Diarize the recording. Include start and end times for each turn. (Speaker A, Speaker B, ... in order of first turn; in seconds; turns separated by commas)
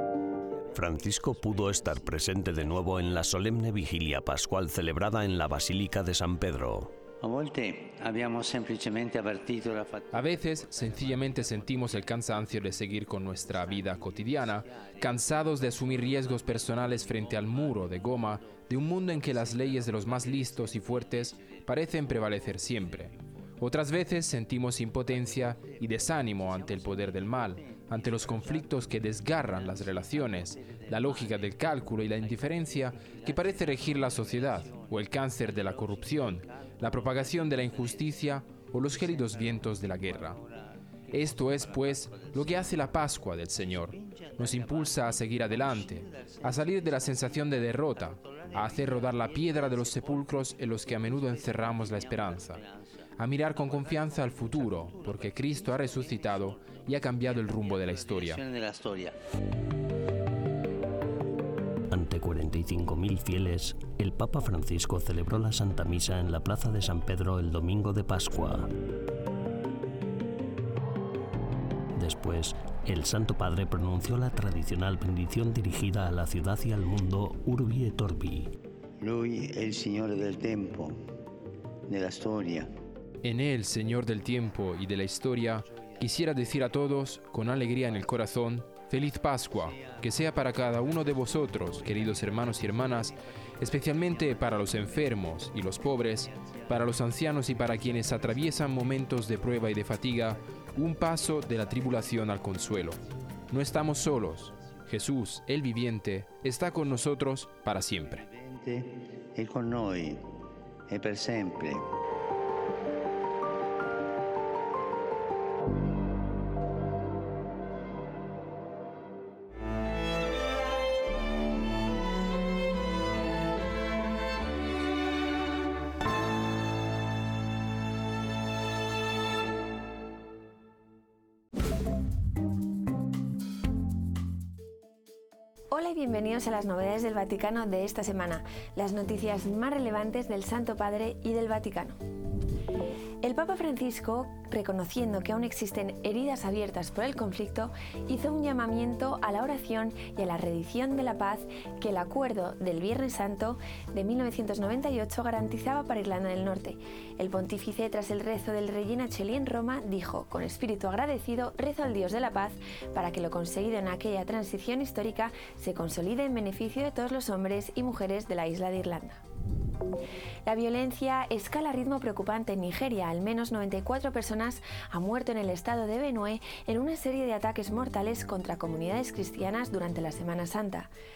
Speaker A: 0.7-7.0, Speaker B: 7.2-11.1, Speaker C: 10.1-40.4, Speaker C: 41.1-52.6, Speaker C: 53.2-58.4, Speaker B: 58.1-59.1, Speaker A: 61.9-68.7, Speaker A: 72.0-78.5, Speaker B: 79.0-80.9, Speaker B: 81.9-82.7, Speaker C: 83.2-108.3, Speaker B: 108.3-110.2, Speaker B: 110.9-111.8, Speaker D: 135.7-142.0, Speaker D: 143.2-169.2, Speaker D: 170.5-180.9